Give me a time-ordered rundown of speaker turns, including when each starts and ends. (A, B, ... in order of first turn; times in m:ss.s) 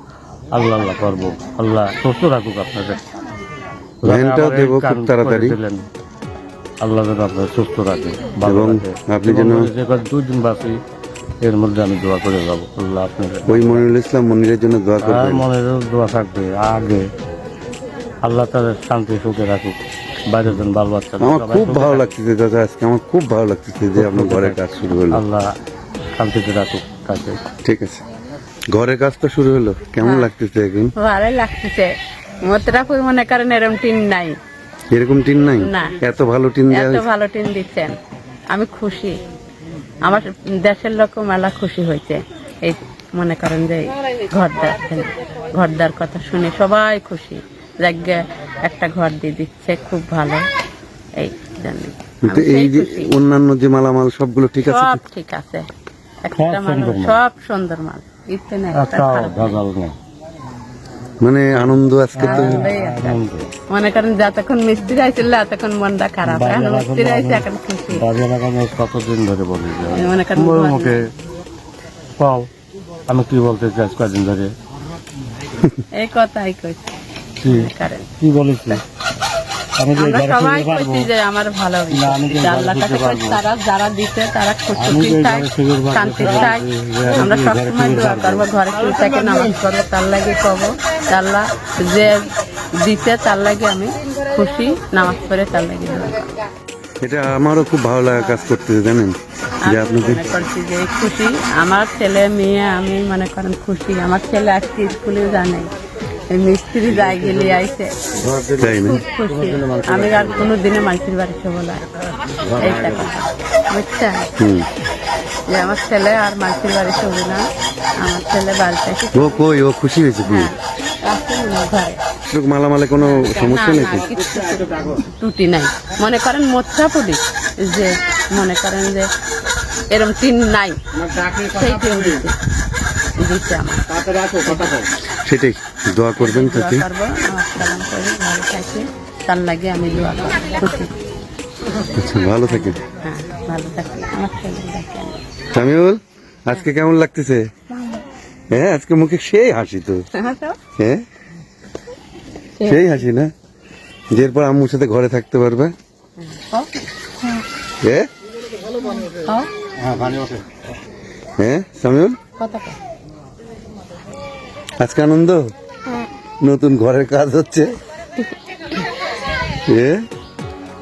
0:00.5-0:03.0 A
0:04.0-0:05.8 A
0:04.0-0:05.6 B
0:06.8-0:10.8 A
0:08.4-0:09.7 B
0:11.4-0:13.8 A
0:13.5-0:15.4 B
0:15.0-0:17.0 A
0:18.2-0:19.7 A
0:20.3-0:22.0 A
0:21.2-0:25.2 B
0:23.9-0:25.5 A
0:26.2-0:27.4 A
0:27.6-0:28.0 B
0:28.7-0:30.9 B
0:30.0-0:30.3 C
0:31.0-0:31.9 C
0:32.4-0:34.4 C
0:34.9-0:37.0 B
0:35.6-0:36.0 C
0:36.7-0:38.0 C
0:38.5-0:39.2 C
0:40.0-0:50.4 C
0:51.2-0:53.1 C
0:52.2-0:55.0 B
0:54.6-0:55.7 C
0:56.2-0:59.6 C
0:56.3-0:57.2 A
0:58.7-0:59.9 A
1:01.2-1:02.7 B
1:02.1-1:03.5 A
1:02.2-1:08.0 C
1:06.2-1:11.0 A
1:09.9-1:11.0 C
1:12.2-1:12.5 A
1:13.1-1:14.5 A
1:16.0-1:16.9 C
1:17.4-1:18.8 A
1:17.4-1:18.1 C
1:19.8-1:21.1 A
1:20.0-1:32.2 C
1:21.9-1:23.4 A
1:24.8-1:28.4 A
1:32.8-1:36.4 C
1:37.0-1:40.3 B
1:39.6-1:45.7 C
1:46.3-1:48.0 C
1:46.9-1:47.6 A
1:48.1-1:50.6 A
1:48.6-1:49.0 B
1:48.8-1:51.8 C
1:52.4-1:53.1 A
1:52.6-1:54.3 C
1:54.4-1:54.7 B
1:55.5-1:57.4 C
1:58.0-1:59.5 C
1:59.1-2:00.5 B
2:00.2-2:02.0 C
2:02.3-2:04.1 B
2:03.0-2:09.1 C
2:09.9-2:12.3 C
2:13.2-2:14.9 C
2:15.1-2:16.8 B
2:16.2-2:20.9 C
2:21.9-2:22.8 B
2:22.5-2:25.2 C
2:25.5-2:27.4 B
2:28.5-2:30.0 B
2:30.2-2:30.6 C
2:32.6-2:33.0 C
2:32.6-2:33.3 B
2:34.1-2:35.7 B
2:36.3-2:36.7 C
2:38.8-2:39.5 C
2:39.8-2:40.4 A
2:41.4-2:42.2 B
2:42.4-2:42.8 C
2:44.8-2:45.4 B
2:46.4-2:47.7 B
2:49.7-2:50.0 B